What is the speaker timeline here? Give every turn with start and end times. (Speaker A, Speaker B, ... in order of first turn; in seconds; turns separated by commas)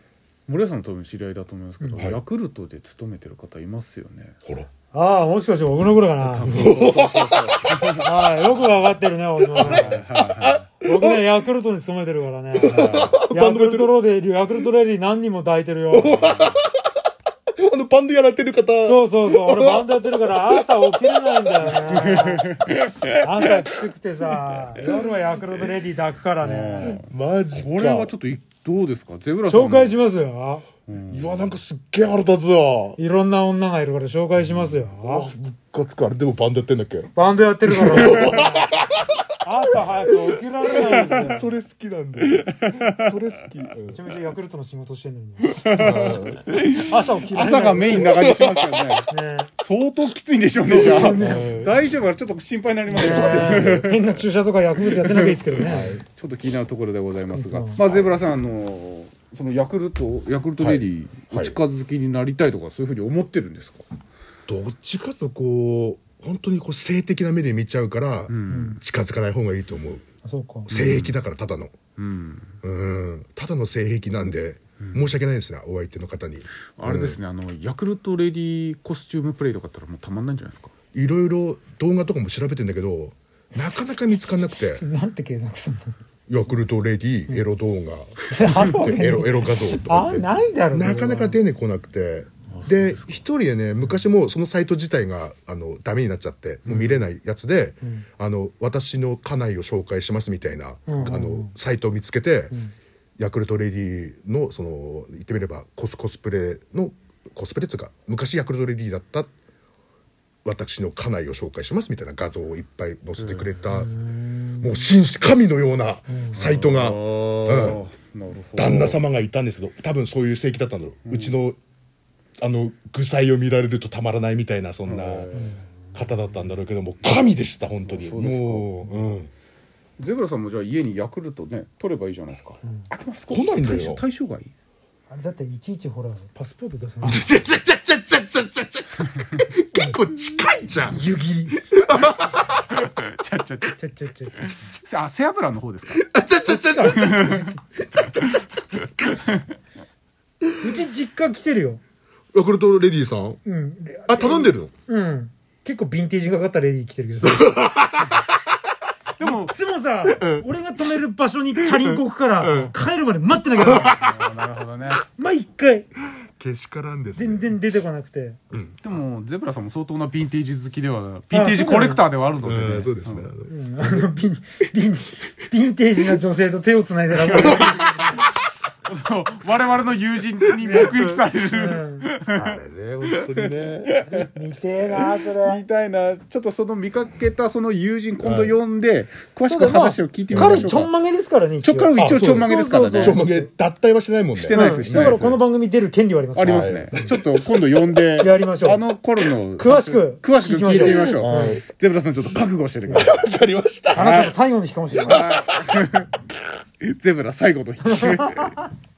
Speaker A: 0.5-4.3, Speaker B: 1.8-2.0, Speaker B: 4.9-6.7, Speaker A: 6.2-8.0, Speaker C: 6.5-7.8, Speaker B: 8.0-9.9, Speaker A: 9.6-10.6, Speaker C: 9.6-11.3, Speaker B: 10.8-16.4, Speaker C: 12.5-13.9, Speaker A: 12.6-13.2, Speaker C: 15.9-16.7, Speaker A: 16.2-16.5, Speaker C: 17.6-21.5, Speaker B: 18.8-22.4, Speaker A: 21.7-23.5, Speaker B: 23.1-27.0, Speaker A: 26.4-29.9, Speaker C: 26.8-28.1, Speaker B: 29.4-30.6, Speaker A: 30.9-31.6, Speaker C: 31.1-33.0, Speaker B: 33.0-35.3, Speaker C: 34.9-37.1, Speaker B: 37.1-38.7, Speaker C: 37.7-39.0, Speaker B: 39.4-41.5, Speaker C: 40.1-44.0, Speaker A: 42.3-43.1, Speaker B: 43.8-46.1, Speaker A: 45.4-54.1, Speaker C: 45.7-46.7, Speaker B: 46.8-48.2, Speaker C: 48.0-48.8, Speaker B: 49.1-49.5, Speaker B: 50.6-51.6, Speaker C: 50.8-51.8, Speaker B: 52.9-56.0, Speaker C: 52.9-53.9, Speaker A: 54.9-63.8, Speaker C: 55.6-56.0, Speaker B: 57.3-57.8, Speaker C: 57.8-58.2, Speaker C: 60.6-61.6, Speaker C: 64.5-70.0, Speaker A: 68.3-68.8, Speaker B: 68.5-68.8, Speaker B: 70.2-70.7, Speaker C: 70.7-71.7, Speaker A: 70.7-71.2, Speaker A: 72.0-72.6, Speaker C: 72.6-77.2, Speaker A: 74.8-75.1, Speaker A: 76.8-80.7, Speaker C: 80.9-84.8, Speaker B: 84.7-85.9, Speaker C: 86.3-102.5, Speaker B: 88.3-91.4, Speaker A: 92.5-93.0, Speaker A: 96.7-97.0, Speaker B: 97.8-98.1, Speaker B: 100.9-101.5, Speaker C: 103.2-109.3, Speaker C: 110.4-114.0, Speaker A: 113.2-113.6, Speaker B: 113.7-114.8, Speaker C: 114.6-117.8, Speaker B: 116.1-116.4, Speaker A: 116.3-119.0, Speaker C: 118.5-121.6, Speaker A: 121.0-121.3, Speaker C: 122.4-125.3, Speaker A: 124.8-125.6, Speaker B: 125.3-126.0, Speaker C: 125.9-129.3, Speaker A: 127.8-128.7, Speaker A: 130.0-134.5, Speaker C: 133.3-134.0, Speaker B: 135.1-137.3, Speaker C: 137.0-142.6, Speaker A: 139.2-139.4, Speaker B: 140.8-141.6, Speaker A: 142.7-143.7, Speaker B: 143.7-144.5, Speaker A: 144.4-148.4, Speaker C: 145.9-149.1, Speaker B: 146.5-147.6, Speaker A: 149.0-149.5, Speaker B: 150.6-151.8, Speaker C: 152.3-153.4, Speaker B: 153.4-157.5, Speaker C: 154.1-154.7, Speaker C: 157.2-158.3, Speaker A: 159.2-159.5, Speaker B: 159.2-164.0, Speaker C: 160.1-160.5, Speaker C: 161.6-162.7, Speaker C: 163.5-164.3, Speaker A: 163.9-165.0, Speaker B: 165.1-165.9, Speaker C: 166.4-167.6, Speaker B: 167.1-168.4, Speaker C: 168.5-168.8, Speaker A: 168.8-173.3, Speaker B: 171.3-172.1, Speaker C: 172.4-174.0, Speaker B: 173.5-177.9, Speaker C: 177.3-177.8, Speaker A: 177.4-177.8, Speaker A: 178.8-182.6, Speaker B: 180.6-182.1, Speaker C: 182.3-183.9, Speaker A: 183.1-184.3, Speaker B: 184.1-185.6, Speaker A: 184.8-190.9, Speaker C: 188.2-188.6, Speaker B: 189.4-193.5, Speaker C: 190.3-190.8, Speaker A: 191.6-193.2, Speaker C: 192.0-195.4, Speaker A: 194.4-195.4, Speaker B: 194.5-197.0, Speaker A: 196.3-203.2, Speaker C: 196.4-197.9, Speaker B: 198.1-198.8, Speaker B: 199.6-201.6, Speaker C: 200.7-201.6, Speaker C: 202.9-204.3, Speaker B: 203.9-205.3, Speaker A: 203.9-204.3, Speaker C: 205.0-205.9, Speaker A: 205.0-206.1, Speaker A: 206.8-208.7, Speaker B: 207.8-208.5